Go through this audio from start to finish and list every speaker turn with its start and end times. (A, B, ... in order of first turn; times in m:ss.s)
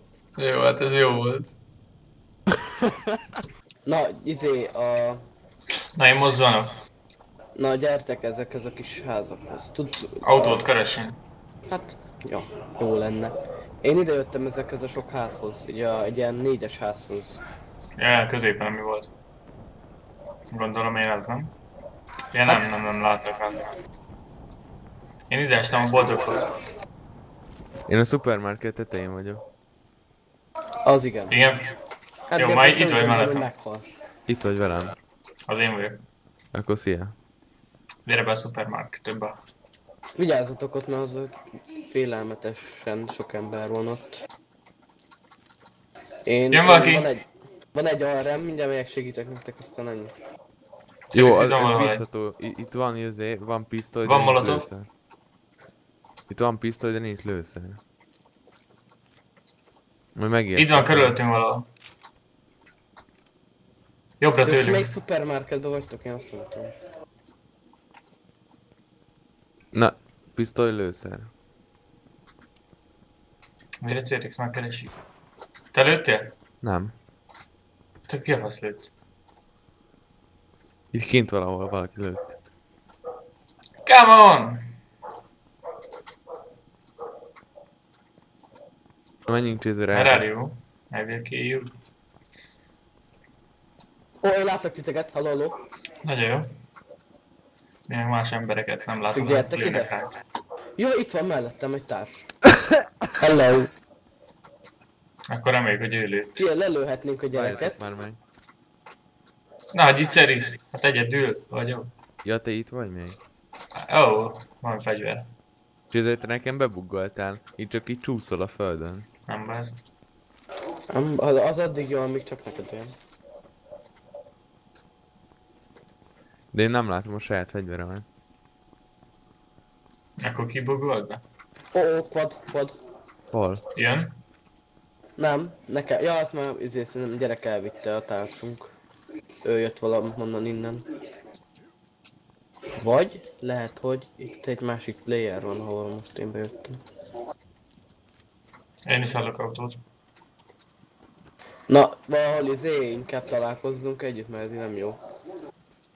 0:00.4-0:01.5 A
0:03.8-0:05.2 B
0:06.0-0:06.7 A
0:07.5-0:10.6 B
0:10.2-0:11.2 A
0:11.7-0:17.4 B
0:18.0-0:19.1 A
0:20.5-0:21.5 A
0:22.3-0:23.7 A
0:25.3-0:26.6 A
0:27.9-0:29.4 C
0:30.8-0:31.3 B
0:31.3-0:31.6 A
0:32.3-0:34.0 B
0:32.4-0:33.5 A
0:34.3-0:35.0 C
0:35.5-0:36.0 A
0:36.5-0:37.1 C
0:38.0-0:39.4 A
0:40.2-0:44.2 B
0:46.2-0:50.1 B
0:46.5-0:47.1 A
0:51.1-0:52.0 A
0:51.1-0:54.9 C
0:54.0-0:54.7 A
0:56.3-0:57.8 C
1:00.1-1:01.2 C
1:00.6-1:01.6 A
1:04.2-1:04.9 A
1:04.4-1:06.8 B
1:09.7-1:11.3 C
1:13.8-1:14.9 A
1:15.7-1:16.3 A
1:16.6-1:16.9 C
1:18.1-1:18.9 A
1:20.9-1:22.3 C
1:23.8-1:24.7 A
1:29.3-1:30.2 C
1:29.9-1:31.7 A
1:34.2-1:35.6 B
1:36.0-1:36.5 A
1:37.9-1:40.1 A
1:39.1-1:39.9 B
1:40.8-1:42.3 B
1:43.2-1:43.7 B
1:45.3-1:46.4 A
1:46.3-1:47.8 B
1:47.3-1:48.2 C
1:49.7-1:51.9 A
1:52.2-1:53.2 C
1:53.8-1:55.3 A
1:55.9-1:59.1 C
1:59.3-1:59.8 A
2:00.9-2:02.9 B
2:06.5-2:08.0 C
2:10.2-2:11.2 A
2:11.7-2:12.8 B
2:13.3-2:13.6 C
2:13.7-2:14.1 A
2:15.2-2:18.7 B
2:19.4-2:20.8 B
2:22.8-2:26.8 B
2:28.8-2:29.8 A
2:31.7-2:35.0 B